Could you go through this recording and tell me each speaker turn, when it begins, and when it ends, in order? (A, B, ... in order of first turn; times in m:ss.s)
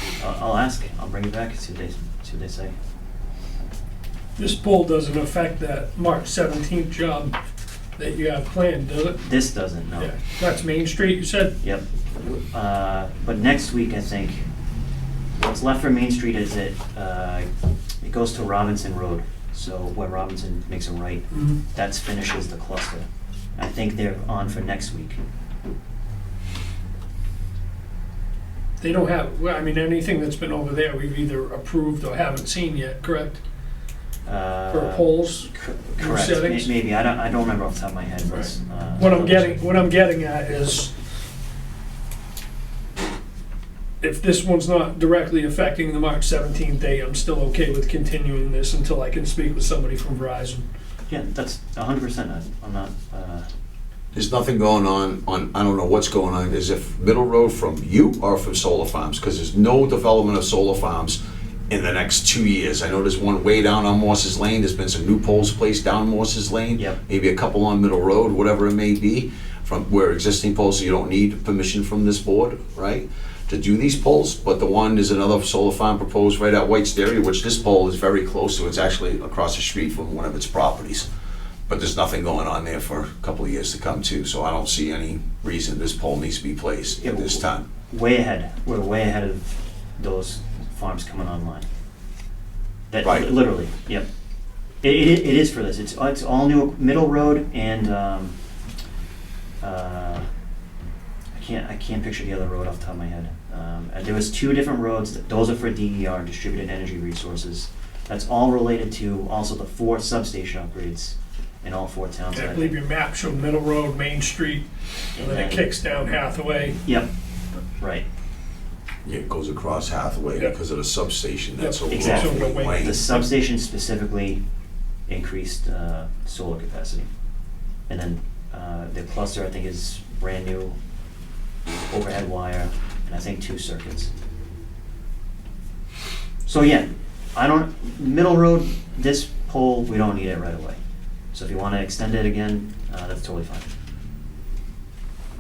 0:00.2-0:02.7 A
0:04.4-0:07.4 B
0:08.0-0:09.2 B
0:09.2-0:10.2 A
0:10.0-0:11.6 B
0:11.6-0:14.4 A
0:15.4-0:17.5 A
0:18.0-0:25.2 A
0:21.3-0:21.6 B
0:28.8-0:33.4 B
0:34.3-0:39.5 A
0:34.7-0:36.7 B
0:39.0-0:40.9 B
0:44.0-0:50.6 B
0:51.1-0:53.5 A
0:54.1-1:01.2 C
1:01.7-1:21.1 C
1:21.7-1:27.7 C
1:27.0-1:31.7 A
1:32.9-1:34.1 A
1:33.0-1:33.3 C
1:34.8-1:38.3 A
1:39.6-1:40.3 A
1:41.3-1:52.8 A
1:52.3-1:56.8 B
1:55.2-1:55.7 A
1:56.8-1:57.1 A
1:57.8-1:58.1 A
1:59.0-2:03.0 C
2:01.6-2:03.3 B
2:01.9-2:04.4 A
2:05.1-2:07.1 A
2:07.9-2:10.8 A
2:11.9-2:14.1 A
2:16.5-2:20.8 A
2:21.3-2:23.7 A